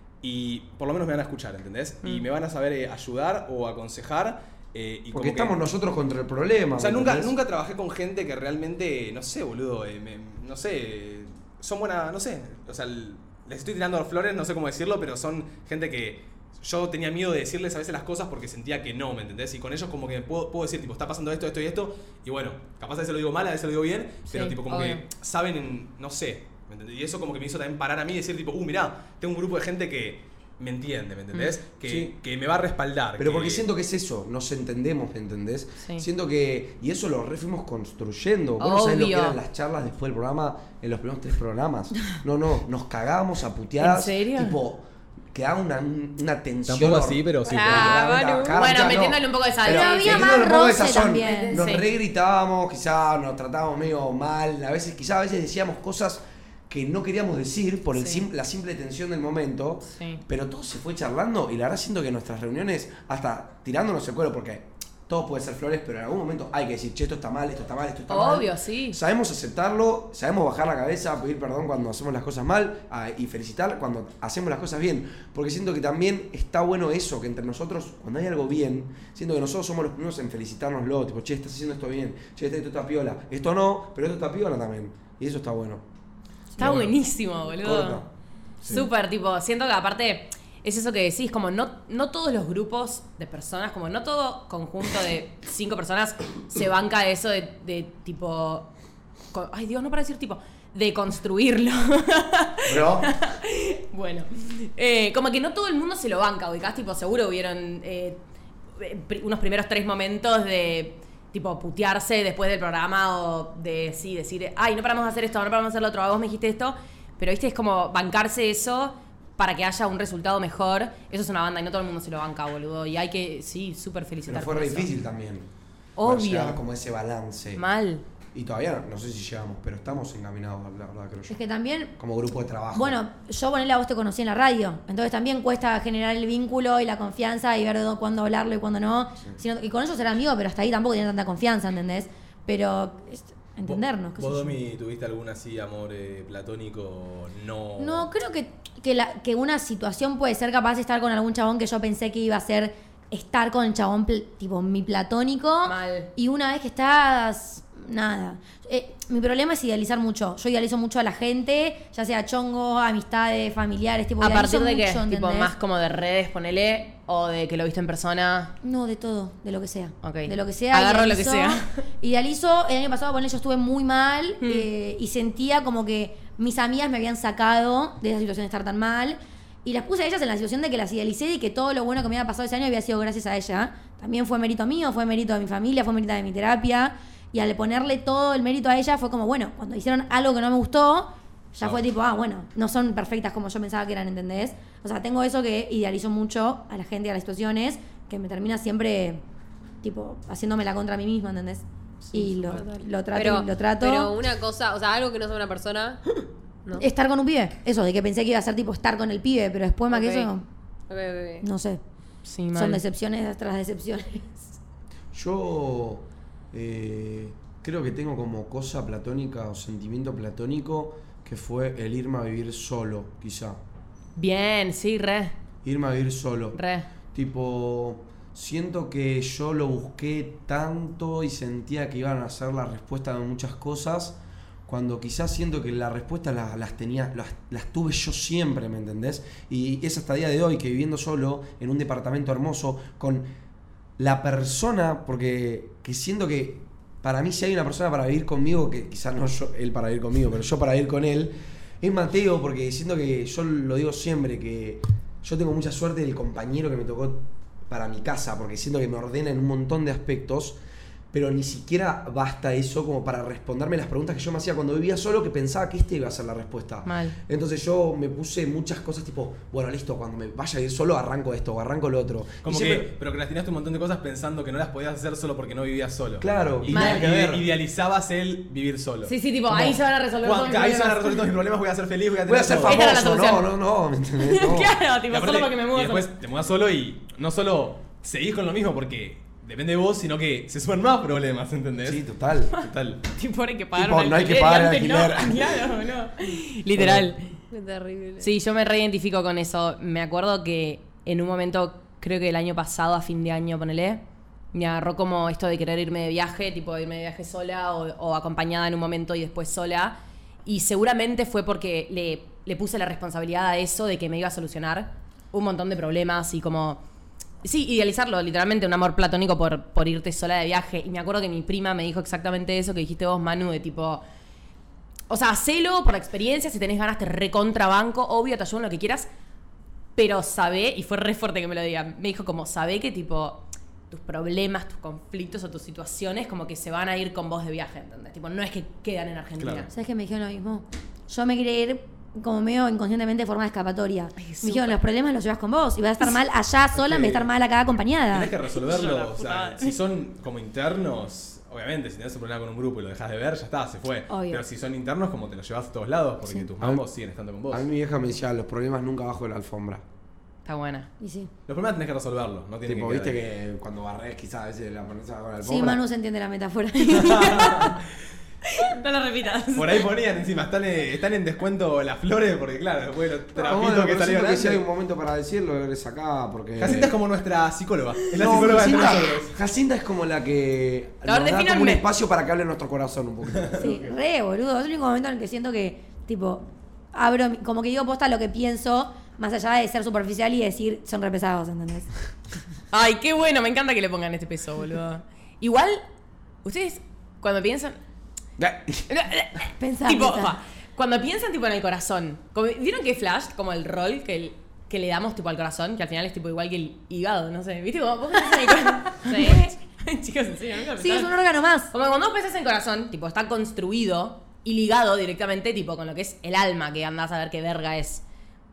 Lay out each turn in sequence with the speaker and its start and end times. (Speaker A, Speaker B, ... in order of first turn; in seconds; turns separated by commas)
Speaker A: 0.2-5.6, Speaker B: 5.1-7.3, Speaker A: 6.8-33.6, Speaker C: 24.3-25.0, Speaker C: 31.3-31.6, Speaker B: 31.9-32.1, Speaker B: 33.2-85.8, Speaker C: 38.6-39.4, Speaker C: 43.8-44.6, Speaker A: 46.7-48.0, Speaker D: 47.4-48.6, Speaker C: 48.5-50.4, Speaker E: 49.6-51.6, Speaker C: 51.2-51.9, Speaker C: 57.9-58.2, Speaker C: 59.9-60.2, Speaker C: 68.1-69.0, Speaker C: 86.6-88.0, Speaker A: 86.6-86.9, Speaker B: 87.6-88.1, Speaker C: 88.6-98.7, Speaker C: 99.3-108.2, Speaker B: 102.7-103.1, Speaker C: 108.8-124.9, Speaker B: 124.3-125.5, Speaker C: 126.0-126.6, Speaker B: 126.0-127.6, Speaker C: 127.6-128.0, Speaker B: 128.3-131.4, Speaker E: 131.3-131.9, Speaker B: 132.0-133.0, Speaker E: 132.7-144.6, Speaker A: 143.6-148.1, Speaker E: 147.8-165.5, Speaker C: 155.6-156.1, Speaker C: 164.2-168.5, Speaker E: 168.6-199.2, Speaker C: 170.0-171.8, Speaker C: 174.4-174.7, Speaker E: 199.8-204.1, Speaker D: 202.1-206.0, Speaker E: 206.8-210.5, Speaker D: 209.9-210.3, Speaker D: 210.9-211.4, Speaker E: 211.4-211.8, Speaker C: 212.2-212.8, Speaker E: 212.5-214.5, Speaker B: 215.1-223.6, Speaker C: 224.2-225.3, Speaker B: 225.6-226.6, Speaker C: 226.5-226.9, Speaker B: 227.1-243.2, Speaker B: 244.0-260.6, Speaker B: 261.1-272.9, Speaker C: 266.9-267.2, Speaker A: 272.4-282.9, Speaker B: 276.2-277.5, Speaker C: 276.7-277.1, Speaker C: 279.1-281.3, Speaker B: 282.3-284.8, Speaker C: 282.6-283.5, Speaker C: 284.2-286.1, Speaker A: 285.1-293.0, Speaker B: 291.8-292.6, Speaker C: 293.1-297.3, Speaker B: 293.8-295.6, Speaker A: 296.8-297.1, Speaker D: 297.5-298.3, Speaker C: 298.2-316.8, Speaker C: 317.4-324.0, Speaker C: 325.1-329.1, Speaker C: 330.0-339.7, Speaker A: 339.4-339.7, Speaker E: 339.7-348.3, Speaker C: 344.2-344.8, Speaker A: 346.8-347.2, Speaker A: 348.1-357.6, Speaker C: 348.5-349.8, Speaker E: 354.1-354.4, Speaker B: 356.6-356.9, Speaker B: 357.5-359.8, Speaker C: 360.4-360.9, Speaker E: 361.0-361.3, Speaker A: 361.5-363.2, Speaker B: 362.6-365.8, Speaker E: 365.4-367.8, Speaker A: 366.9-367.9, Speaker C: 368.4-369.9, Speaker A: 369.6-374.6, Speaker B: 373.4-376.9, Speaker A: 376.6-379.3, Speaker B: 378.1-383.9, Speaker C: 381.1-381.8, Speaker E: 383.6-391.9, Speaker C: 392.7-395.8, Speaker C: 396.4-397.8, Speaker B: 398.4-398.9, Speaker C: 398.9-411.1, Speaker E: 399.6-400.4, Speaker D: 409.0-409.4, Speaker E: 410.8-411.7, Speaker C: 411.7-418.0